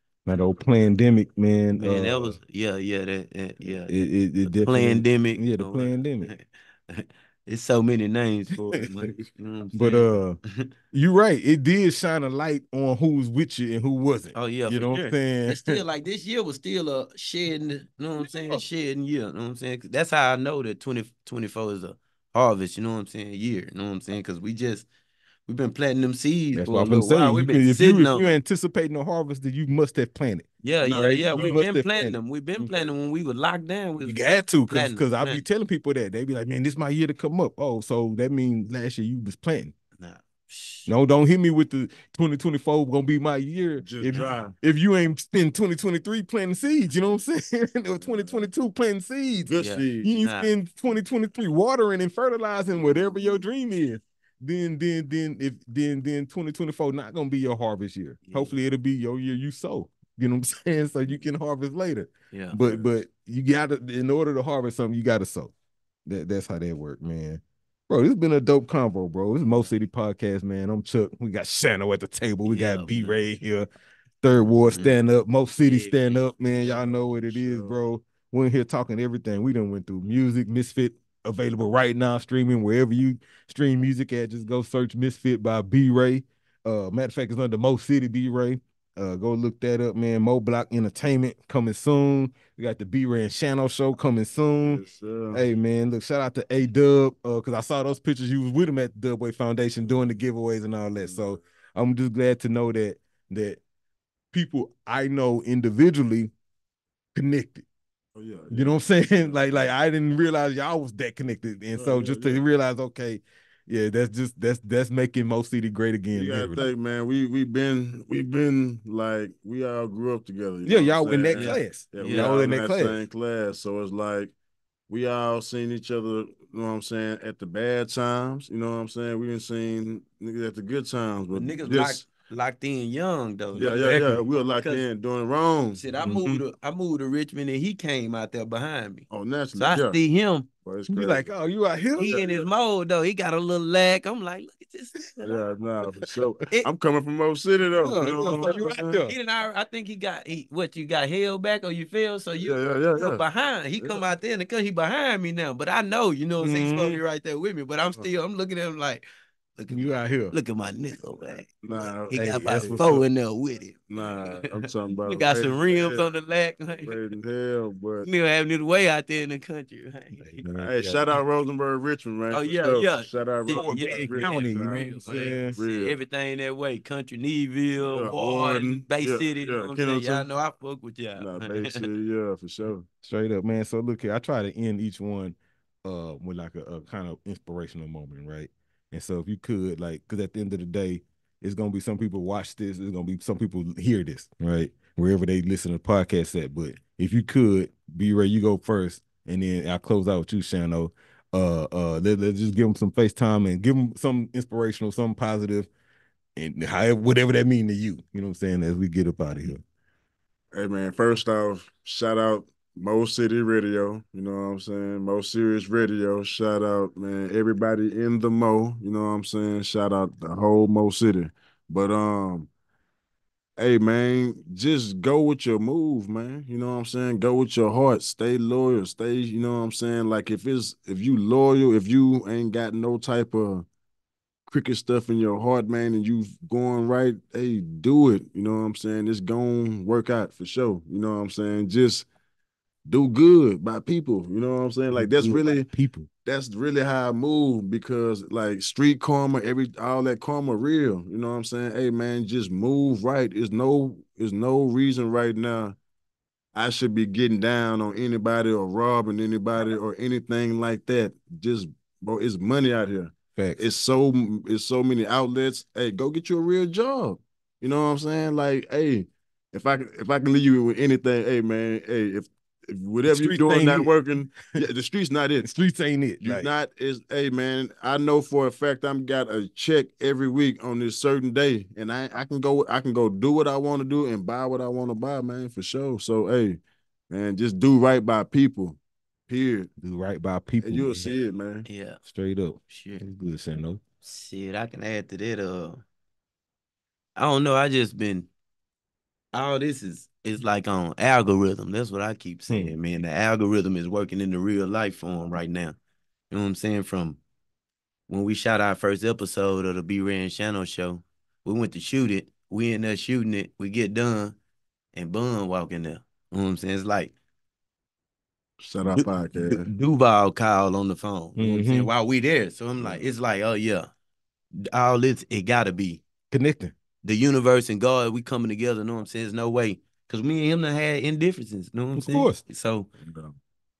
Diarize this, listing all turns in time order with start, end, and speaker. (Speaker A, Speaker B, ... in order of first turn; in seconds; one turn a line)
Speaker A: 0.2-2.4
Speaker B: 1.8-10.1
Speaker A: 3.9-6.3
Speaker A: 8.6-9.0
Speaker A: 9.7-10.4
Speaker A: 10.9-15.8
Speaker B: 14.3-24.9
Speaker B: 25.4-28.3
Speaker A: 26.5-32.7
Speaker B: 30.6-35.4
Speaker C: 30.8-31.6
Speaker A: 34.0-39.7
Speaker B: 40.0-40.9
Speaker A: 40.9-65.5
Speaker C: 43.8-44.5
Speaker C: 48.0-48.4
Speaker C: 49.5-50.1
Speaker B: 49.6-50.5
Speaker B: 58.2-58.5
Speaker B: 62.3-62.6
Speaker A: 66.0-73.7
Speaker B: 72.5-73.2
Speaker A: 74.2-94.8
Speaker B: 75.6-76.3
Speaker C: 76.6-77.7
Speaker C: 94.6-95.4
Speaker A: 95.3-103.6
Speaker C: 101.0-101.3
Speaker A: 104.3-106.3
Speaker A: 107.1-107.7
Speaker C: 108.2-109.7
Speaker A: 108.5-116.7
Speaker C: 111.7-112.4
Speaker C: 116.1-124.3
Speaker A: 120.6-123.0
Speaker B: 121.3-122.3
Speaker C: 124.9-132.0
Speaker B: 131.3-133.8
Speaker C: 133.5-135.8
Speaker A: 133.7-134.2
Speaker B: 134.6-134.8
Speaker B: 135.7-140.5
Speaker A: 136.0-136.4
Speaker C: 139.1-140.0
Speaker C: 140.6-141.3
Speaker A: 140.9-142.2
Speaker B: 141.9-145.3
Speaker C: 142.0-142.4
Speaker C: 145.2-149.0
Speaker A: 147.8-149.1
Speaker B: 148.1-159.1
Speaker C: 152.4-153.2
Speaker C: 153.8-154.0
Speaker A: 156.4-157.0
Speaker B: 159.6-161.5
Speaker A: 159.7-160.3
Speaker C: 161.6-163.1
Speaker B: 162.1-167.0
Speaker A: 162.1-162.8
Speaker C: 163.9-166.0
Speaker C: 166.8-168.1
Speaker B: 168.0-170.5
Speaker A: 170.2-171.0
Speaker C: 170.6-176.0
Speaker B: 172.3-181.9
Speaker A: 173.5-175.6
Speaker C: 177.8-180.3
Speaker C: 181.2-182.8
Speaker A: 183.0-205.7
Speaker A: 206.3-209.6
Speaker C: 210.5-222.5
Speaker C: 223.6-233.7
Speaker C: 234.5-242.1
Speaker C: 242.8-245.7
Speaker A: 244.9-246.1
Speaker C: 246.2-255.8
Speaker C: 256.5-275.5
Speaker A: 263.4-263.6
Speaker A: 273.1-273.9
Speaker A: 275.4-276.5
Speaker C: 276.2-289.7
Speaker A: 289.8-291.1
Speaker C: 290.6-291.6
Speaker B: 291.6-292.0
Speaker A: 292.0-293.8
Speaker B: 292.7-293.0
Speaker B: 294.0-295.8
Speaker B: 297.1-298.3
Speaker B: 299.3-305.8
Speaker A: 302.5-302.7
Speaker B: 306.3-307.2
Speaker B: 308.1-314.4
Speaker B: 314.9-317.1
Speaker C: 318.6-319.7
Speaker B: 319.6-323.9
Speaker A: 321.4-321.9
Speaker C: 322.8-323.1
Speaker B: 324.7-326.0
Speaker A: 326.3-326.7
Speaker B: 327.0-332.9
Speaker A: 331.9-332.4
Speaker C: 333.0-333.4